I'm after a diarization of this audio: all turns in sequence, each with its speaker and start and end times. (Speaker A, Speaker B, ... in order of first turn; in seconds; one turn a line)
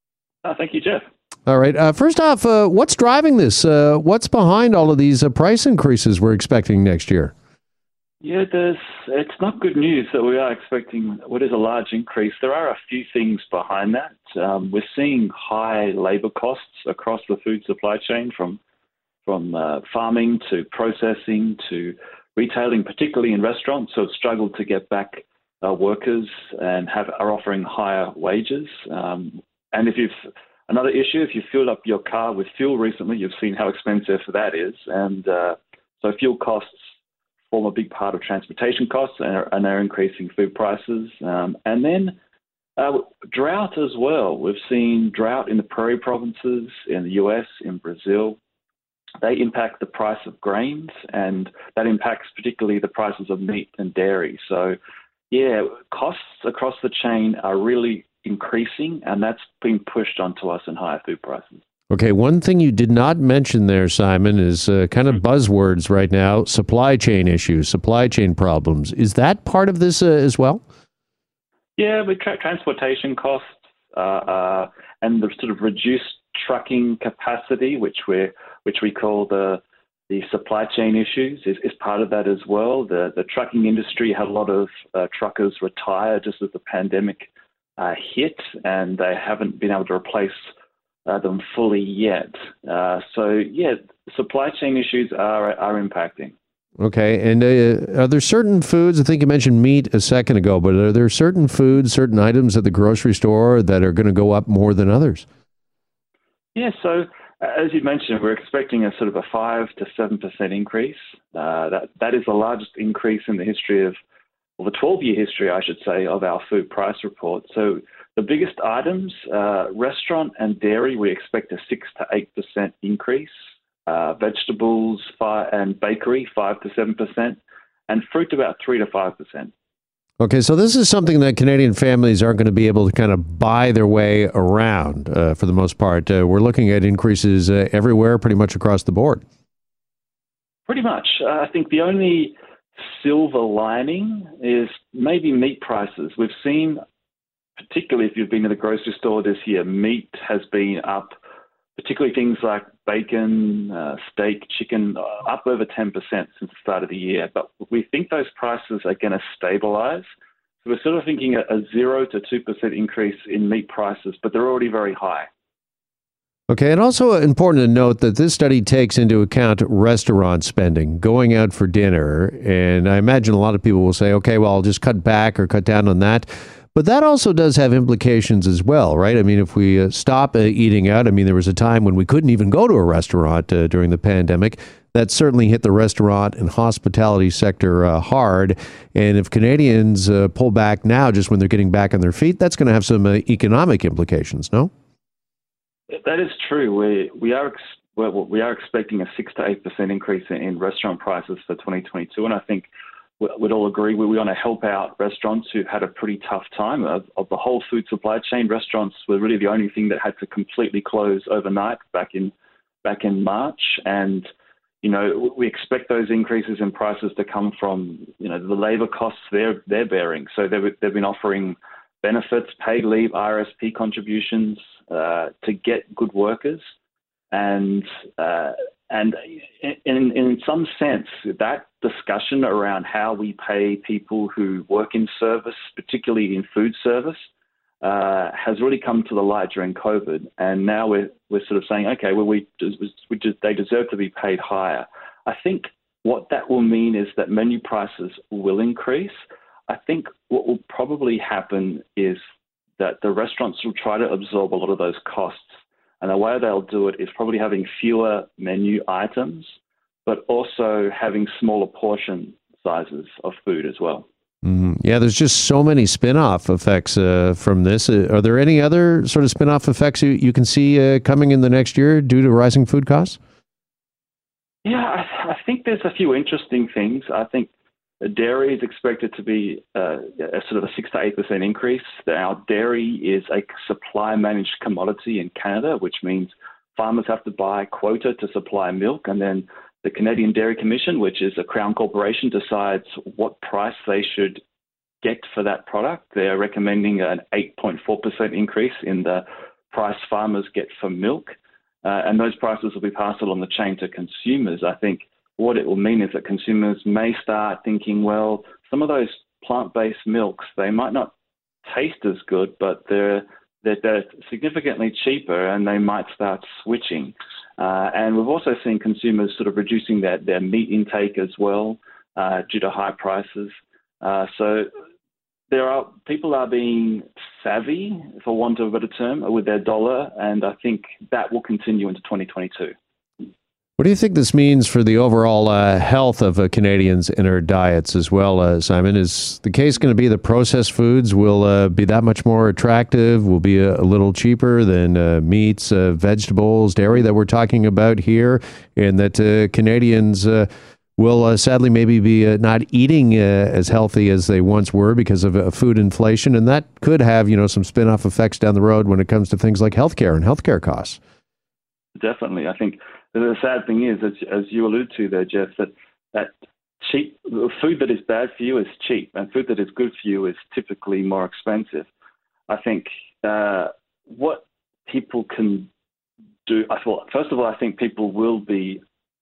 Speaker A: 0.4-1.0
Speaker B: 1.5-7.3
Speaker A: 8.2-18.6
Speaker A: 19.2-30.1
Speaker A: 30.7-36.9
Speaker A: 37.5-42.1
Speaker A: 42.8-48.4
Speaker A: 49.2-54.8
Speaker A: 55.3-61.6
Speaker B: 61.9-70.6
Speaker A: 71.8-90.4
Speaker A: 91.1-96.3
Speaker B: 96.8-105.2
Speaker A: 106.5-114.0
Speaker A: 114.6-123.3
Speaker A: 123.9-127.4
Speaker A: 127.9-129.5
Speaker B: 130.2-139.2
Speaker A: 140.7-146.8
Speaker A: 147.6-151.1
Speaker A: 151.8-160.0
Speaker A: 160.6-165.3
Speaker B: 166.5-194.7
Speaker A: 195.9-202.7
Speaker A: 203.2-212.3
Speaker A: 212.8-214.3
Speaker A: 214.8-226.6
Speaker A: 227.3-237.3
Speaker A: 237.8-252.2
Speaker A: 252.8-259.5
Speaker A: 260.1-264.1
Speaker B: 264.4-273.2
Speaker A: 274.6-294.4
Speaker A: 295.0-311.1
Speaker A: 311.6-324.7
Speaker A: 325.5-332.7
Speaker B: 333.8-361.0
Speaker A: 362.0-371.9
Speaker A: 372.5-375.7
Speaker A: 376.5-378.8